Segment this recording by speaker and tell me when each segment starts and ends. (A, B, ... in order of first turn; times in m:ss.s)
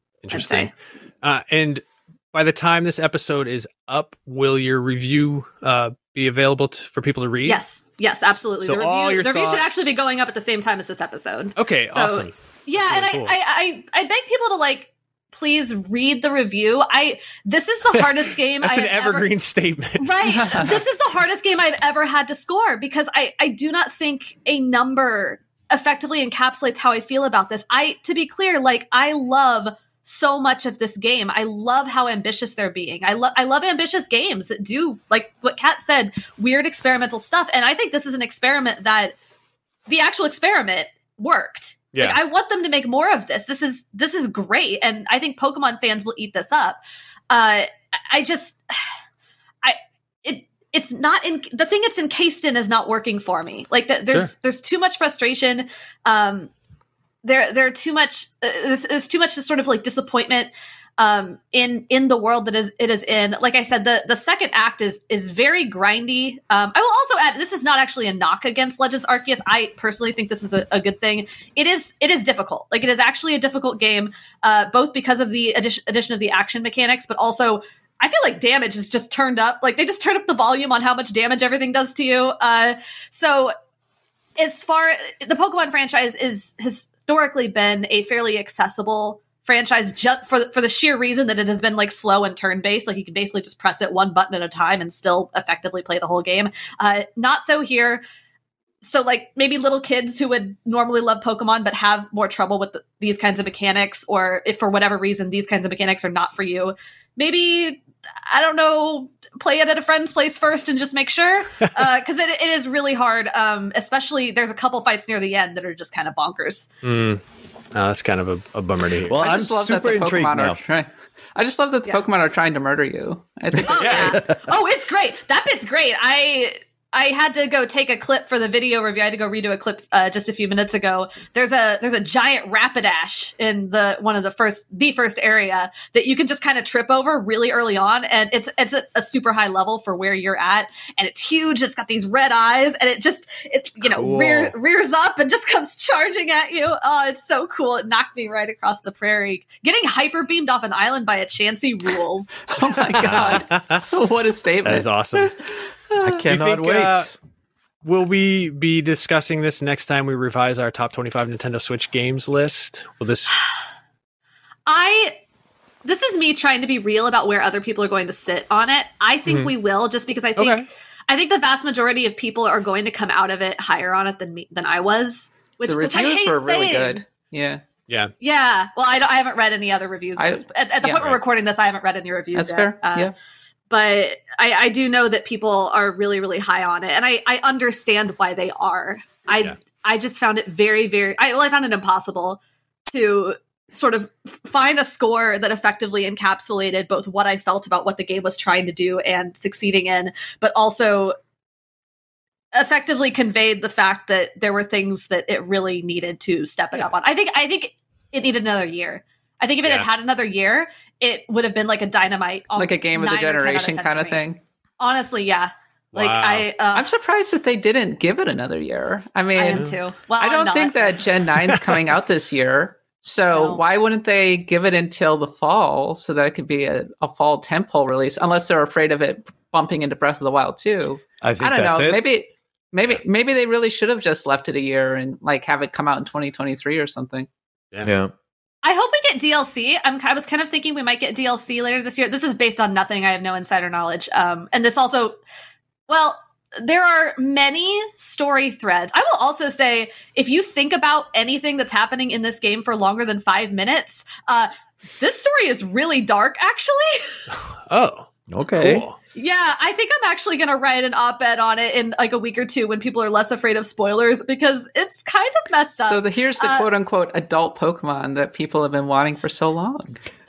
0:00.2-0:07.6 A
0:00.3-0:00.7 B
0:07.4-0:19.3 B
0:08.6-0:09.9 A
0:11.6-0:13.3 A
0:17.9-0:20.8 A
0:20.0-0:39.2 B
0:20.3-0:20.7 C
0:39.9-0:48.7 B
0:41.9-0:42.2 A
0:49.6-0:56.5 B
0:57.2-1:23.5 B
1:24.4-1:38.0 B
1:38.8-1:56.7 B
1:56.8-1:57.2 A
1:57.7-1:59.2 A
1:59.0-2:00.6 D
1:59.2-2:04.1 C
2:03.7-2:32.4 B
2:03.7-2:04.2 A
2:23.8-2:24.5 A
2:32.5-2:35.3 C
2:33.0-2:33.8 A
2:34.6-2:35.3 A
2:36.0-2:37.1 D
2:36.2-2:37.1 A
2:37.8-2:43.4 A
2:44.6-2:45.2 B
2:45.8-2:57.0 B
2:49.3-2:49.5 A
2:50.3-2:50.7 A
2:55.6-2:57.6 C
2:58.2-3:03.1 B
3:00.2-3:01.2 C
3:02.3-3:03.1 C
3:03.7-3:21.2 B
3:22.5-3:34.2 B
3:29.6-3:29.9 A
3:32.6-3:34.4 C
3:34.8-3:36.9 B
3:35.9-3:36.5 A
3:36.7-3:39.6 C
3:39.3-3:41.0 B
3:40.2-3:57.3 C
3:43.3-3:43.6 B
3:51.2-3:52.0 D
3:57.8-3:58.1 D
3:58.6-4:05.2 B
4:05.9-4:17.2 B
4:17.3-4:19.0 A
4:18.3-4:18.9 D
4:19.1-4:26.7 B
4:25.8-4:30.0 C